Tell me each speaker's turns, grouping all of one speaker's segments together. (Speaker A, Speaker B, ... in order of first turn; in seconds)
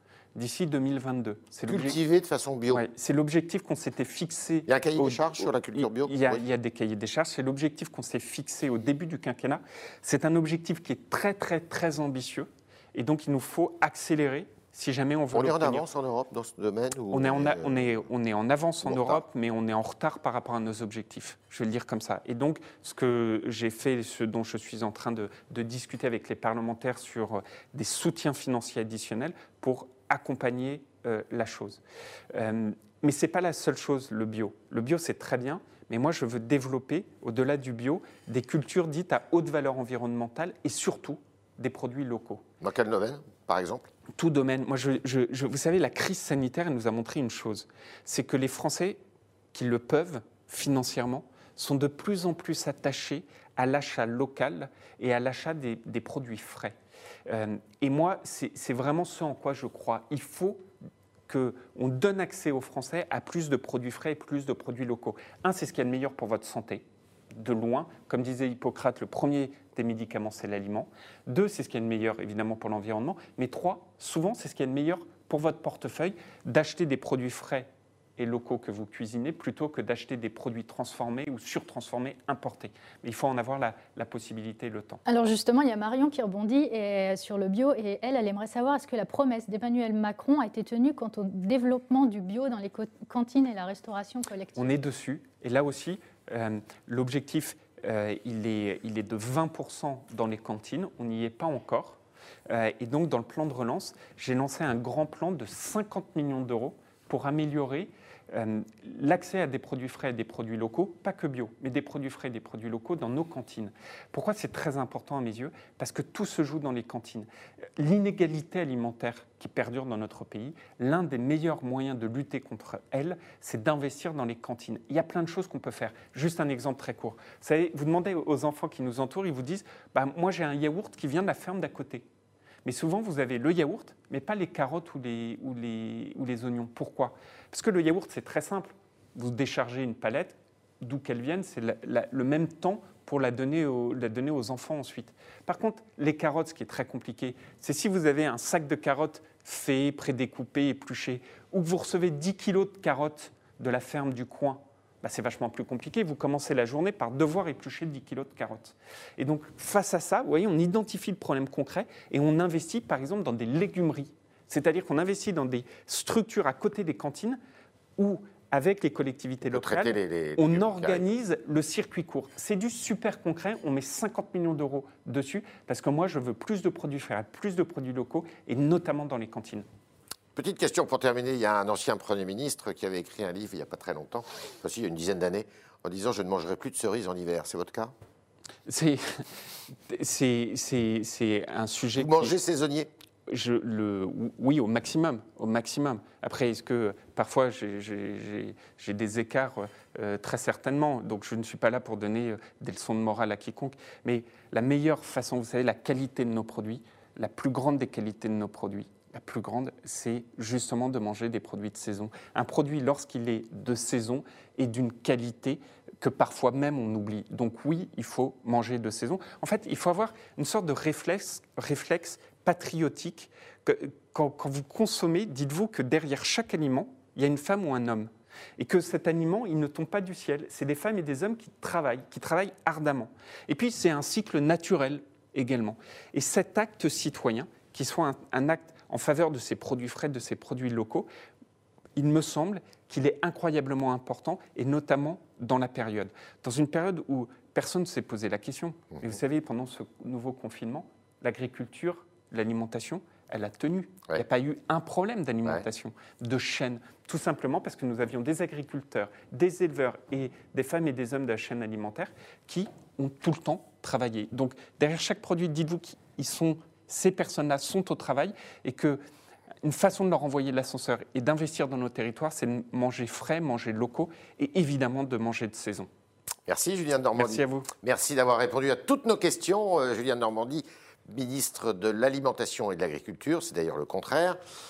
Speaker A: 0.3-2.0, 2.7-15.8, 17.1-42.4, 44.1-49.0, 49.5-56.8, 57.3-60.6, 61.3-85.0, 94.6-132.1, 132.7-167.4, 168.0-179.7, 188.7-189.3, 189.9-192.4, 193.3-241.1, 242.0-269.0, 269.6-275.9, 277.2-277.7
Speaker B: 1.7-2.8, 4.7-6.4, 15.3-17.9, 18.8-19.2, 42.6-43.9, 169.5-171.1, 180.4-187.9, 191.9-192.9, 276.5-284.4
Speaker C: 85.1-94.8